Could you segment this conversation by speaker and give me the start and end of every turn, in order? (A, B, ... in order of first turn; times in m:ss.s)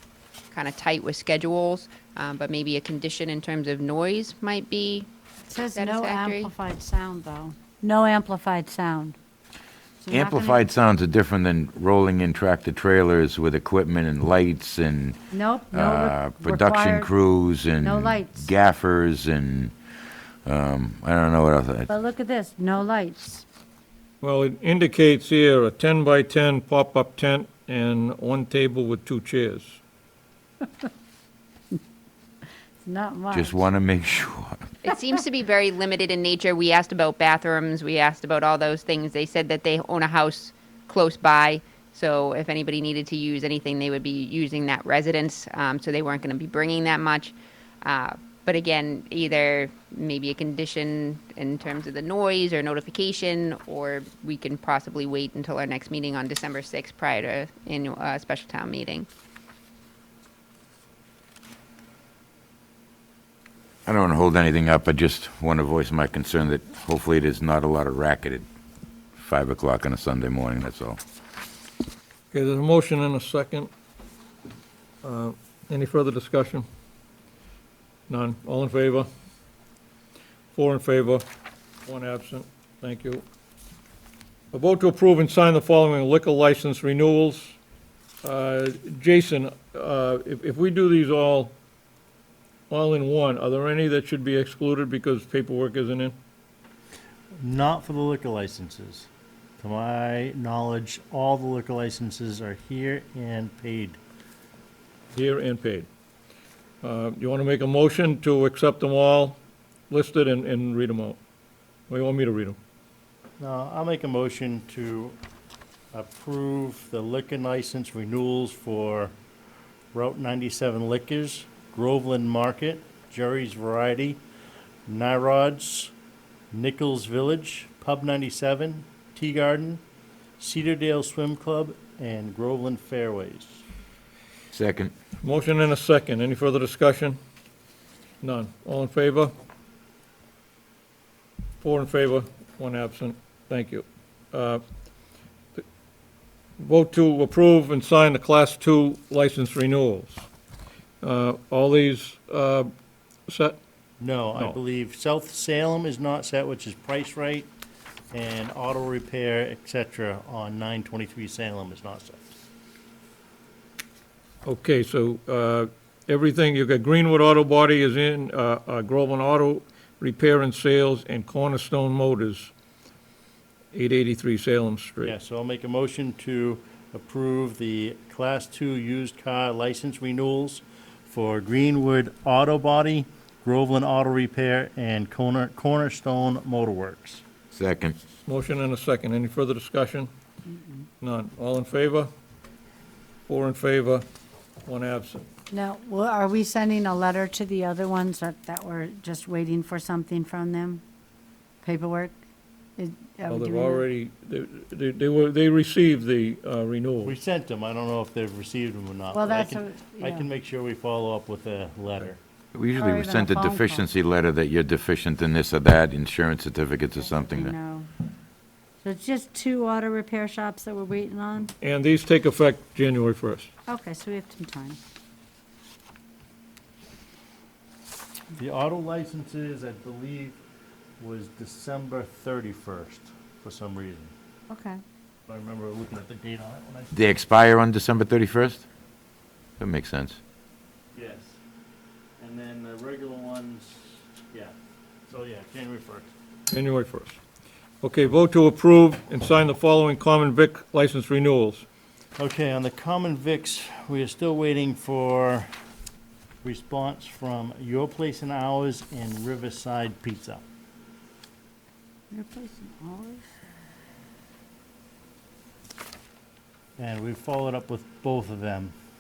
0:00.5-0:05.1 A
0:05.5-0:09.2 B
0:05.7-0:06.5 A
0:10.0-0:10.7 B
0:10.1-0:15.2 C
0:15.3-0:17.1 B
0:15.7-0:19.8 C
0:17.8-0:18.5 B
0:20.4-0:21.9 C
0:21.9-0:23.4 B
0:24.2-0:29.8 D
0:32.8-0:33.6 B
0:33.3-0:34.7 C
0:34.8-0:59.1 A
1:03.9-1:08.5 C
1:09.2-1:11.0 C
1:12.3-1:13.7 D
1:15.0-1:16.6 D
1:18.1-1:19.1 D
1:20.5-1:21.2 D
1:21.8-1:23.2 D
1:24.5-1:27.6 D
1:28.2-1:31.6 D
1:32.7-1:36.2 D
1:37.4-1:39.1 E
1:39.6-1:44.0 E
1:45.1-1:45.9 D
1:46.8-1:49.4 D
1:49.9-1:51.2 D
1:51.9-1:52.6 D
1:53.4-1:55.2 E
1:55.9-1:59.1 E
1:59.9-2:04.2 E
2:04.9-2:05.9 E
2:06.5-2:09.8 E
2:10.4-2:13.6 E
2:14.5-2:14.9 C
2:15.2-2:17.2 D
2:18.2-2:19.3 D
2:21.6-2:24.6 D
2:26.6-2:30.3 D
2:31.0-2:32.7 D
2:33.3-2:33.6 D
2:34.0-2:37.5 E
2:38.1-2:42.4 E
2:44.4-2:52.5 D
2:53.7-2:55.2 D
2:55.0-3:07.2 E
3:07.5-3:08.0 C
3:08.3-3:10.1 D
3:11.0-3:12.1 D
3:13.3-3:14.1 D
3:14.6-3:15.2 D
3:15.5-3:20.8 B
3:21.6-3:22.2 B
3:22.8-3:23.8 B
3:23.3-3:27.2 D
3:27.0-3:32.2 E
3:29.1-3:30.3 B
3:32.6-3:37.5 C
3:32.8-3:33.8 B
3:37.1-3:37.9 B
3:38.8-3:41.5 B
3:41.6-3:43.5 D
3:43.7-3:44.8 B
3:48.4-3:50.4 E
3:51.0-3:54.1 E
3:54.5-3:54.8 B
3:55.3-3:56.9 E
3:56.9-3:58.6 C
3:59.6-4:00.2 C
4:00.9-4:01.4 E
4:02.2-4:04.5 E
4:05.1-4:06.1 E
4:06.5-4:07.2 D
4:07.8-4:11.6 D
4:12.2-4:15.5 E
4:16.4-4:20.4 E
4:22.1-4:23.3 B
4:26.8-4:28.7 E